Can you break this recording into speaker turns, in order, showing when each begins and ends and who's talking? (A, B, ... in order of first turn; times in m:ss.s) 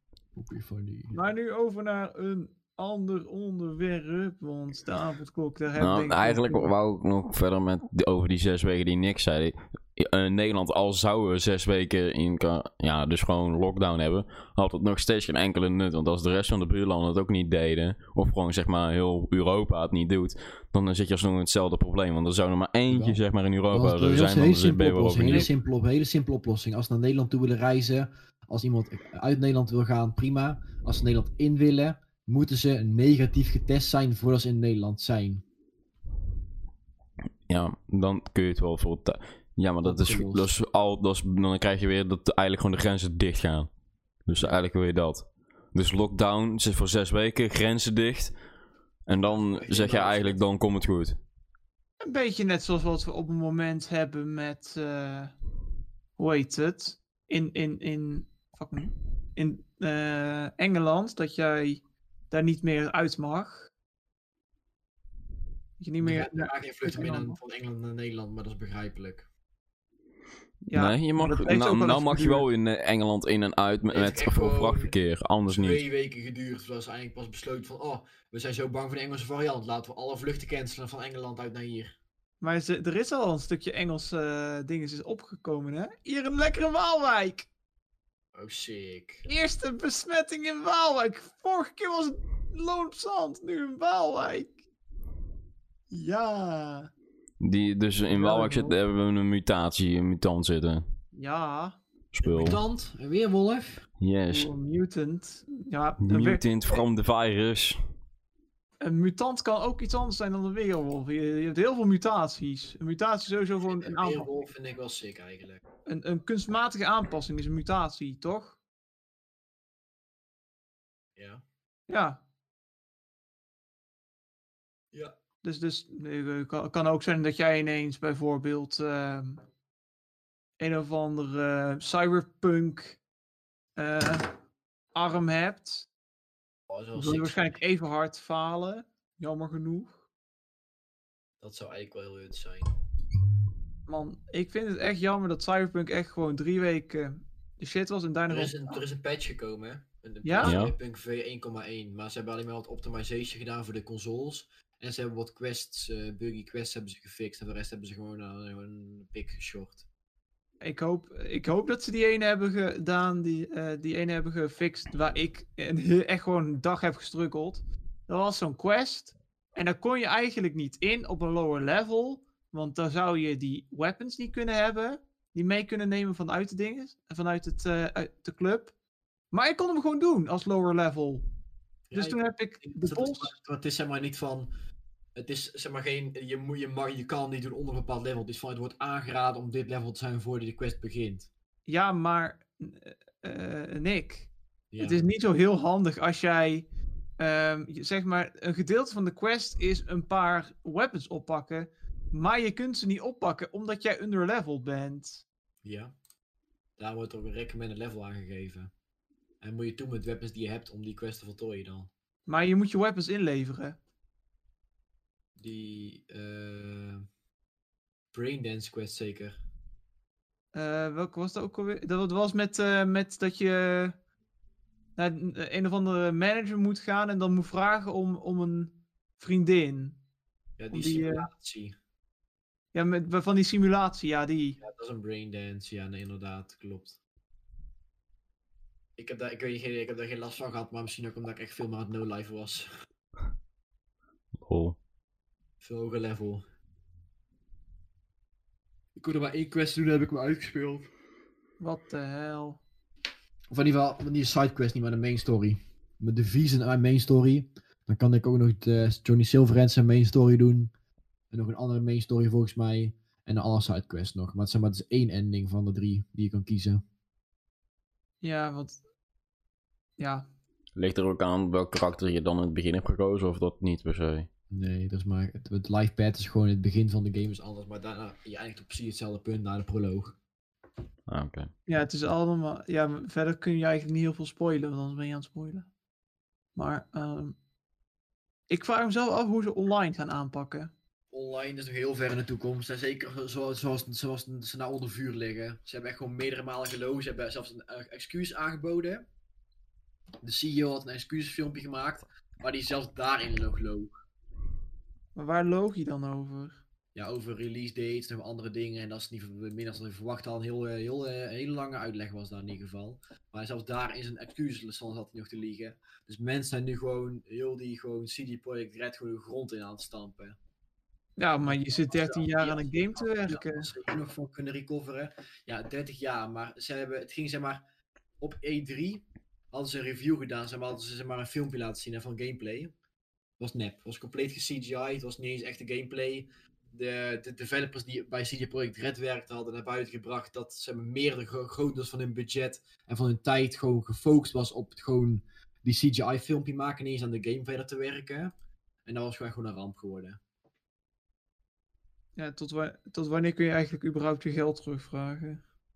0:00.4-0:01.2 A
0:01.1-0:06.7 B
0:05.8-0:25.5 C
0:22.9-0:35.4 A
0:37.5-0:43.7 C
0:39.8-0:40.5 A
0:44.2-0:48.3 C
0:49.1-0:51.2 C
0:49.2-0:50.4 A
0:52.0-0:55.3 B
0:56.2-1:03.7 B
1:05.8-1:07.4 B
1:06.0-1:09.3 A
1:10.7-1:12.4 B
1:10.7-1:15.8 C
1:13.9-1:14.9 A
1:15.5-1:21.9 A
1:22.4-1:27.5 B
1:28.3-1:29.2 A
1:29.2-1:34.5 B
1:35.9-1:36.9 B
1:37.4-1:40.8 C
1:38.1-1:38.8 B
1:41.1-1:41.8 B
1:42.1-1:42.6 C
1:42.2-1:43.8 A
1:44.0-1:44.5 C
1:44.3-1:46.8 B
1:46.0-1:47.8 C
1:48.8-1:54.3 B
1:53.7-1:55.6 A
1:55.9-1:58.6 B
2:01.2-2:01.4 A
2:01.9-2:02.2 B
2:05.4-2:09.4 B
2:10.6-2:13.0 B
2:13.8-2:14.3 B
2:14.9-2:15.9 B
2:16.7-2:17.6 A
2:17.0-2:19.9 B
2:21.4-2:22.7 A
2:23.9-2:28.8 B
2:28.3-2:39.8 A
2:30.2-2:30.5 B
2:30.4-2:30.7 C
2:40.6-2:58.7 B
2:59.3-3:01.2 B
3:01.9-3:04.5 A
3:01.9-3:03.3 B
3:05.2-3:11.3 A
3:11.6-3:16.7 B
3:14.7-3:15.0 A
3:17.2-3:25.2 B
3:25.6-3:25.9 A
3:26.8-3:28.7 A
3:29.4-3:31.9 A
3:32.3-3:33.8 B
3:35.4-3:37.0 A
3:38.1-3:39.4 A
3:40.5-3:43.9 B
3:45.0-3:50.0 B
3:50.6-3:51.7 A
3:50.7-3:51.3 B
3:52.7-3:54.6 B
3:54.6-3:57.0 A
3:59.0-4:02.7 A
4:04.4-4:04.8 C
4:05.6-4:06.4 A
4:09.0-4:10.9 A
4:11.6-4:12.6 B
4:13.5-4:20.7 A
4:21.3-4:26.8 A
4:28.2-4:28.8 B
4:30.0-4:30.2 B
4:30.8-4:34.3 C
4:34.5-4:40.2 A
4:41.1-4:41.5 C
4:41.7-4:45.6 B
4:46.6-4:47.4 B
4:48.5-4:50.7 B
4:51.1-4:59.0 A
5:00.2-5:03.9 A
5:05.2-5:06.6 B
5:06.9-5:20.4 A
5:21.2-5:23.7 B
5:21.4-5:27.6 A
5:28.2-5:32.7 A
5:33.4-5:48.3 A
5:48.9-5:50.2 A
5:52.2-5:55.4 B